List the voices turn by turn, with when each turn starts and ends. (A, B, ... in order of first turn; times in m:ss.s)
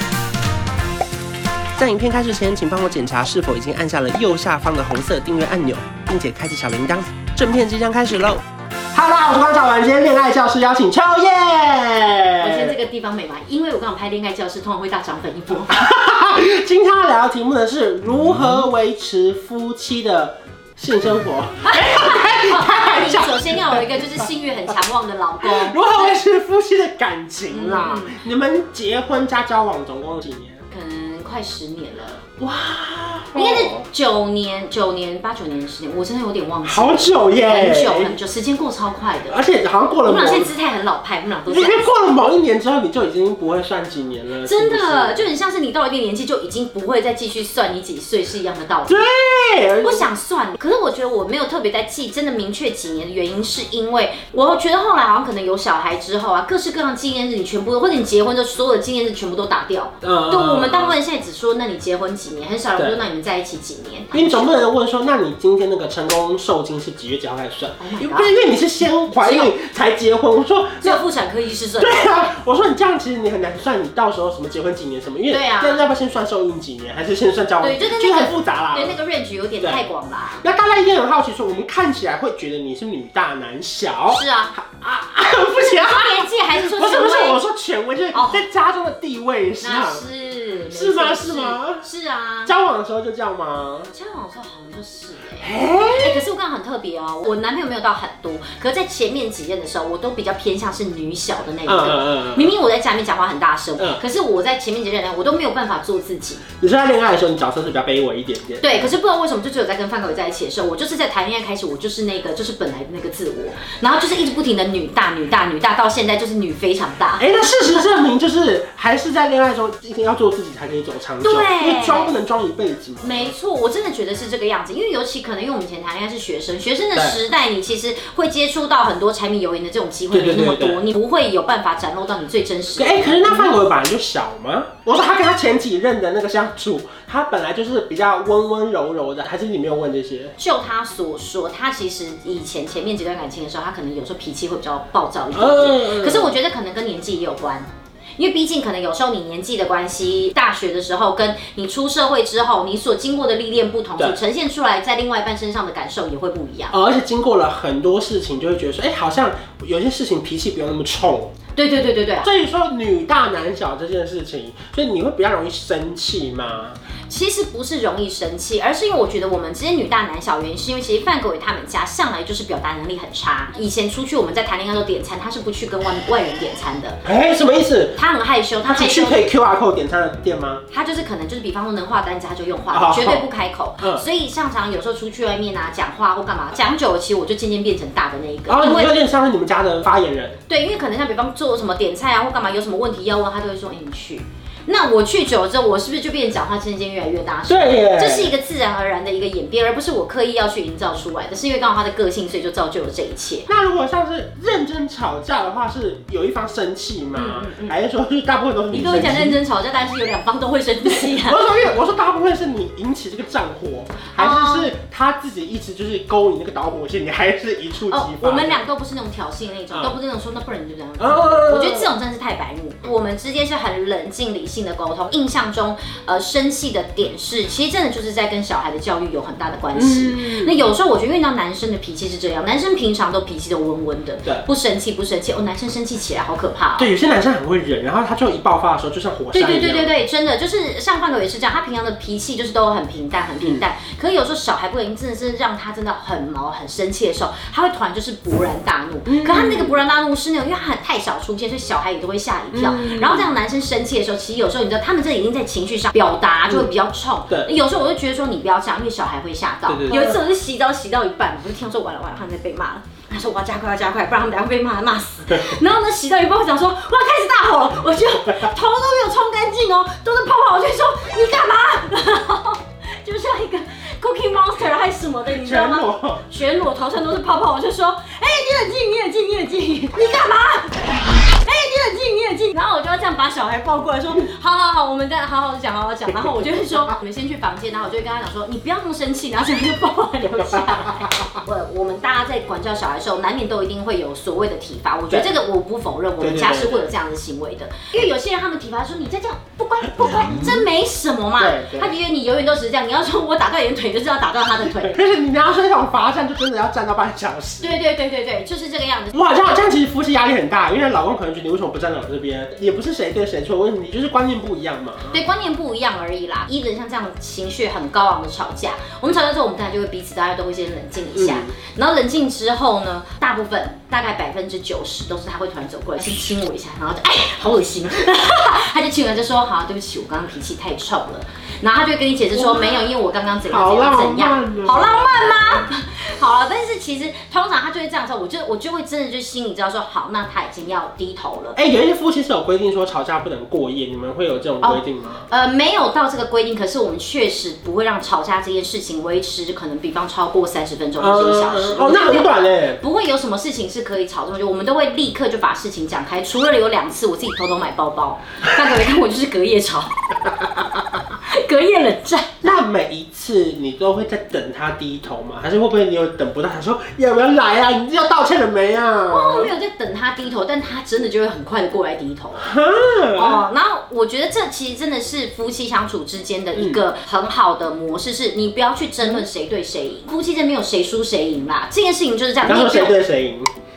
0:01.8-0:08.4 A
0:08.9-0:12.8 A
0:12.4-0:15.8 B
0:15.7-0:24.0 A
0:21.6-0:26.2 B
0:25.4-0:30.6 A
0:27.5-0:28.2 B
0:30.7-0:32.2 B
0:32.4-0:33.9 A
0:33.4-0:39.4 B
0:36.6-0:38.2 A
0:39.3-0:40.5 A
0:40.0-0:41.9 B
0:41.5-0:45.3 A
0:44.4-0:49.0 B
0:48.9-0:50.1 A
0:49.8-1:04.6 B
1:00.0-1:01.0 A
1:02.8-1:03.0 A
1:04.1-1:11.0 A
1:07.8-1:08.3 B
1:09.1-1:09.5 B
1:10.8-1:12.1 B
1:11.8-1:19.0 A
1:15.3-1:15.8 B
1:17.6-1:20.4 B
1:19.6-1:19.9 A
1:20.4-1:30.0 A
1:24.1-1:24.6 B
1:25.6-1:27.4 B
1:28.1-1:28.4 B
1:29.6-1:32.5 B
1:30.7-1:31.9 A
1:32.5-1:33.9 A
1:33.9-1:46.4 B
1:35.4-1:36.3 A
1:41.7-1:42.5 A
1:46.6-1:48.9 A
1:48.6-1:57.2 B
1:57.2-2:03.3 A
2:01.2-2:02.1 B
2:03.0-2:13.6 B
2:07.0-2:07.2 A
2:10.1-2:10.8 A
2:12.8-2:20.3 A
2:20.4-2:36.7 B
2:25.3-2:26.3 A
2:36.7-2:41.3 A
2:41.6-2:42.3 B
2:42.2-2:46.8 A
2:47.1-2:57.0 B
2:57.0-2:58.0 A
2:58.0-2:59.2 B
2:58.6-3:00.6 A
3:00.7-3:08.9 B
3:02.7-3:03.3 A
3:03.8-3:04.0 A
3:08.5-3:10.4 A
3:10.5-3:23.5 B
3:17.5-3:18.3 A
3:23.5-3:29.4 A
3:27.1-3:27.8 B
3:28.7-3:31.4 B
3:30.8-3:38.6 A
3:34.1-3:34.7 B
3:37.9-3:56.9 B
3:39.7-3:40.0 A
3:41.0-3:42.0 A
3:49.7-3:50.7 A
3:56.8-3:59.9 A
3:59.3-5:05.0 B
4:03.4-4:03.6 A
4:09.1-4:09.8 A
4:12.5-4:13.3 A
4:19.7-4:20.2 A
4:35.3-4:36.3 A
4:55.1-4:55.4 A
4:56.2-4:56.9 A
5:00.2-5:00.6 A
5:01.4-5:02.0 A
5:04.8-5:07.8 A
5:07.6-5:09.2 B
5:09.1-5:15.2 A
5:15.1-5:41.6 B
5:21.2-5:21.5 A
5:32.3-5:32.9 A
5:33.5-5:35.4 A
5:41.6-5:45.3 A
5:44.6-6:00.0 B
5:51.0-5:52.8 A
6:01.2-6:02.3 B
6:02.4-6:09.5 A
6:09.1-6:12.5 B
6:12.4-6:13.4 A
6:13.1-6:23.0 B
6:16.5-6:16.8 A
6:22.4-6:23.5 A